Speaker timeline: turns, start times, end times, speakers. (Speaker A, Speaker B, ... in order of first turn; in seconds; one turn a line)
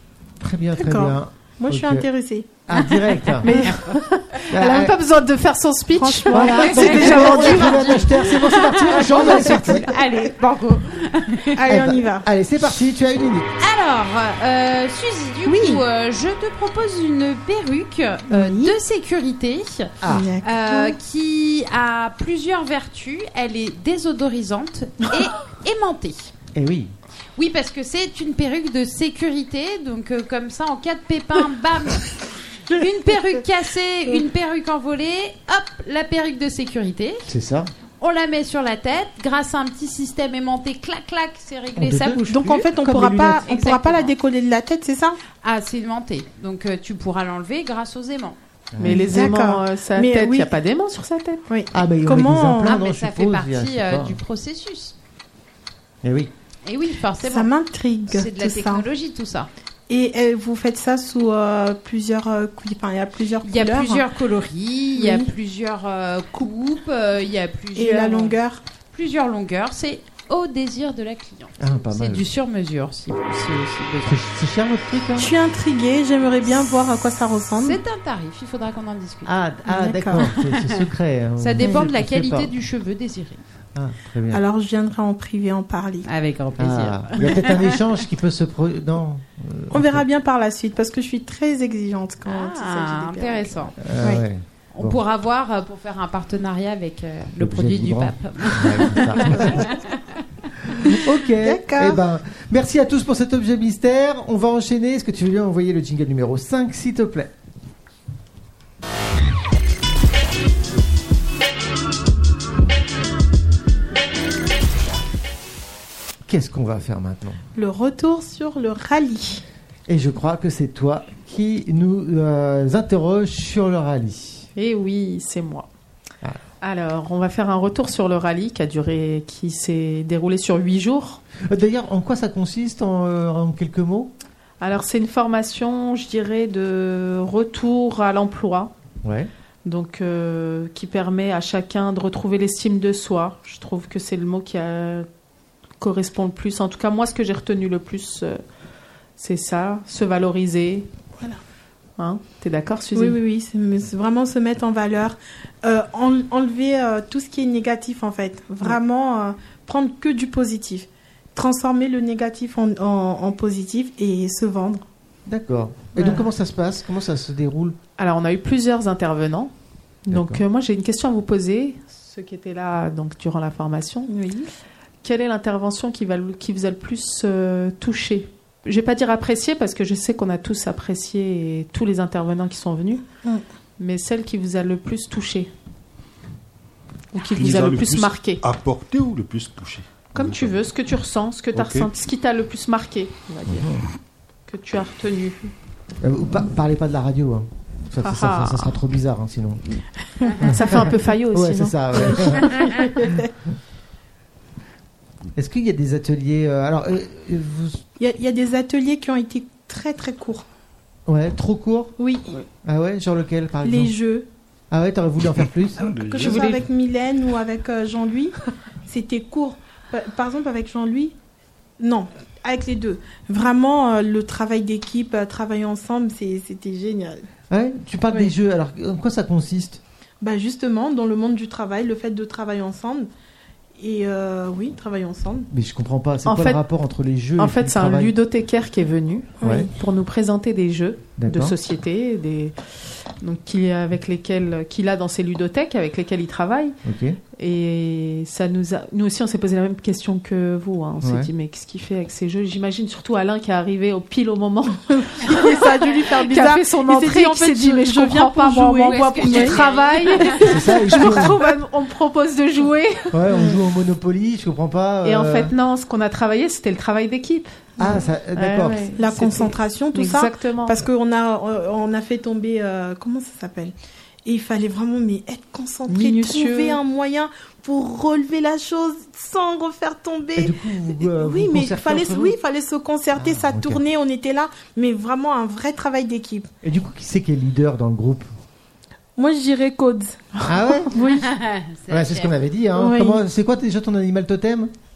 Speaker A: 0.4-2.1
Speaker B: 0.8-2.5
Speaker A: 2.6-3.6
Speaker C: 3.4-7.8
Speaker A: 4.5-5.0
Speaker B: 6.0-8.1
Speaker A: 6.3-9.9
Speaker D: 6.5-11.7
Speaker B: 9.1-10.0
Speaker B: 11.6-12.3
Speaker A: 11.7-13.5
Speaker D: 13.6-26.3
Speaker B: 15.4-15.8
Speaker B: 18.3-18.8
Speaker A: 20.0-20.3
Speaker B: 20.1-21.0
Speaker A: 26.5-26.9
Speaker D: 27.4-37.3
Speaker A: 37.2-37.7
Speaker D: 38.0-42.2
Speaker A: 41.8-43.4
Speaker B: 42.3-45.2
Speaker D: 43.4-44.1
Speaker D: 45.4-48.4
Speaker A: 48.7-49.2
Speaker C: 48.8-51.4
Speaker B: 48.8-50.5
Speaker B: 51.5-52.8
Speaker A: 51.7-54.2
Speaker D: 52.6-54.9
Speaker A: 56.0-56.3
Speaker D: 56.6-57.5
Speaker B: 57.2-58.9
Speaker D: 58.1-59.5
Speaker B: 59.9-64.0
Speaker D: 63.4-68.4
Speaker B: 64.9-65.3
Speaker B: 67.7-68.6
Speaker D: 68.9-74.2
Speaker A: 71.6-72.3
Speaker A: 74.0-75.3
Speaker B: 75.2-77.8
Speaker D: 77.6-79.3
Speaker A: 79.2-82.5
Speaker B: 79.7-80.2
Speaker D: 80.2-80.8
Speaker D: 81.4-83.4
Speaker A: 83.7-84.4
Speaker B: 84.3-86.1
Speaker D: 86.0-88.0
Speaker A: 86.6-90.0
Speaker B: 89.7-94.2
Speaker D: 92.2-93.8
Speaker A: 93.8-95.0
Speaker D: 94.7-100.0
Speaker A: 97.3-99.7
Speaker A: 100.7-107.3
Speaker B: 100.8-102.0
Speaker A: 116.3-117.4
Speaker B: 117.5-119.4
Speaker A: 119.9-124.5
Speaker C: 124.5-125.7
Speaker C: 126.6-131.2
Speaker A: 131.4-134.1
Speaker C: 134.6-138.7
Speaker A: 139.0-139.3
Speaker C: 139.6-145.1
Speaker C: 145.8-148.4
Speaker C: 149.2-150.9
Speaker C: 152.0-153.2
Speaker B: 152.9-164.8
Speaker A: 165.2-167.8
Speaker C: 168.0-169.5
Speaker C: 170.1-174.1
Speaker A: 170.1-170.4
Speaker B: 174.1-174.5
Speaker C: 175.0-183.0
Speaker C: 183.8-185.5
Speaker C: 187.1-188.4
Speaker E: 187.2-190.7
Speaker C: 190.1-193.7
Speaker E: 191.5-191.9
Speaker A: 193.5-193.8
Speaker C: 194.5-195.5
Speaker A: 196.0-199.8
Speaker C: 198.0-198.8
Speaker C: 200.3-202.3
Speaker A: 200.4-203.2
Speaker B: 202.1-203.3
Speaker A: 205.3-207.8
Speaker B: 208.0-210.4
Speaker A: 211.1-211.9
Speaker B: 212.0-212.3
Speaker A: 212.6-213.9
Speaker B: 213.6-214.3
Speaker A: 214.7-215.9
Speaker E: 215.8-216.6
Speaker B: 216.0-221.2
Speaker B: 221.8-227.2
Speaker A: 227.5-229.8
Speaker B: 230.2-233.1
Speaker B: 233.8-235.5
Speaker A: 235.5-238.1
Speaker C: 236.2-236.6
Speaker C: 237.4-246.8
Speaker B: 239.4-239.7
Speaker A: 239.4-239.7
Speaker A: 241.2-241.5
Speaker A: 246.8-247.2
Speaker C: 247.3-263.2
Speaker A: 251.0-251.3
Speaker B: 255.1-259.6
Speaker D: 258.8-260.7
Speaker A: 260.4-261.4
Speaker A: 263.1-265.5
Speaker C: 265.0-267.8
Speaker A: 267.8-268.9
Speaker C: 268.3-270.8
Speaker B: 269.0-273.7
Speaker B: 274.2-286.5
Speaker C: 275.9-276.8
Speaker A: 280.4-282.4
Speaker A: 283.1-283.8
Speaker A: 286.6-288.3
Speaker B: 289.1-291.3
Speaker A: 290.4-290.9
Speaker D: 291.0-292.3
Speaker A: 291.9-294.7
Speaker B: 292.8-293.2